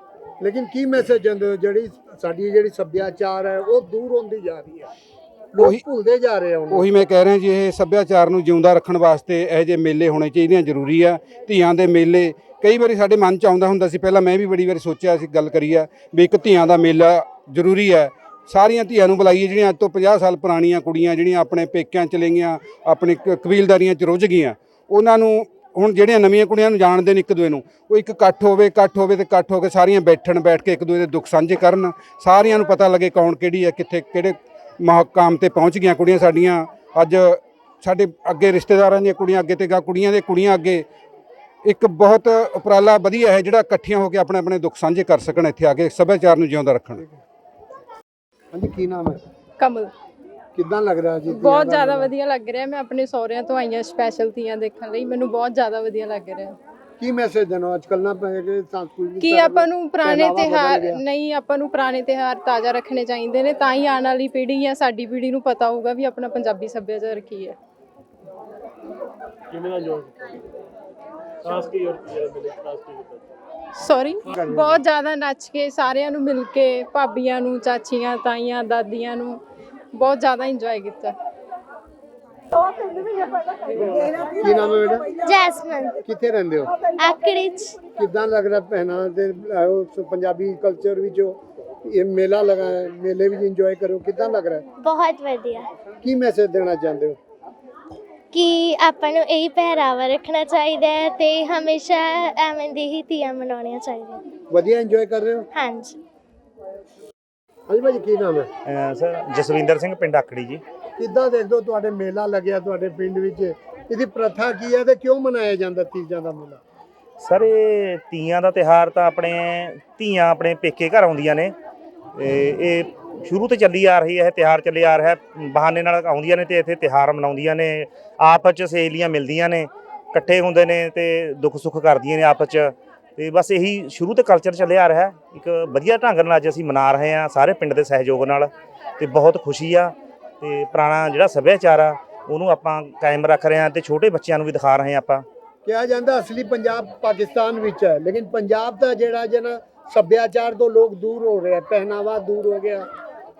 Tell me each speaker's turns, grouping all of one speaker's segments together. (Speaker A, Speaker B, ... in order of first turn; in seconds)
Speaker A: 0.4-4.9, 5.5-6.9, 48.5-49.2, 50.5-52.1, 57.0-61.0, 74.3-74.8, 84.3-85.2, 86.0-86.7, 88.0-94.7, 96.0-97.2, 104.5-105.5, 107.7-108.5, 111.0-116.6, 145.7-152.9
Speaker B: 6.7-40.9, 41.6-47.0
Speaker C: 49.6-49.9, 51.3-56.5, 59.2-67.6, 73.8-79.4, 80.0-81.2
Speaker D: 69.5-70.1, 71.5-73.2
Speaker E: 85.2-86.0, 87.0-87.8, 94.8-95.7, 98.3-104.2, 105.5-106.0
Speaker F: 108.7-110.6, 117.2-121.5, 122.2-138.5, 139.0-145.2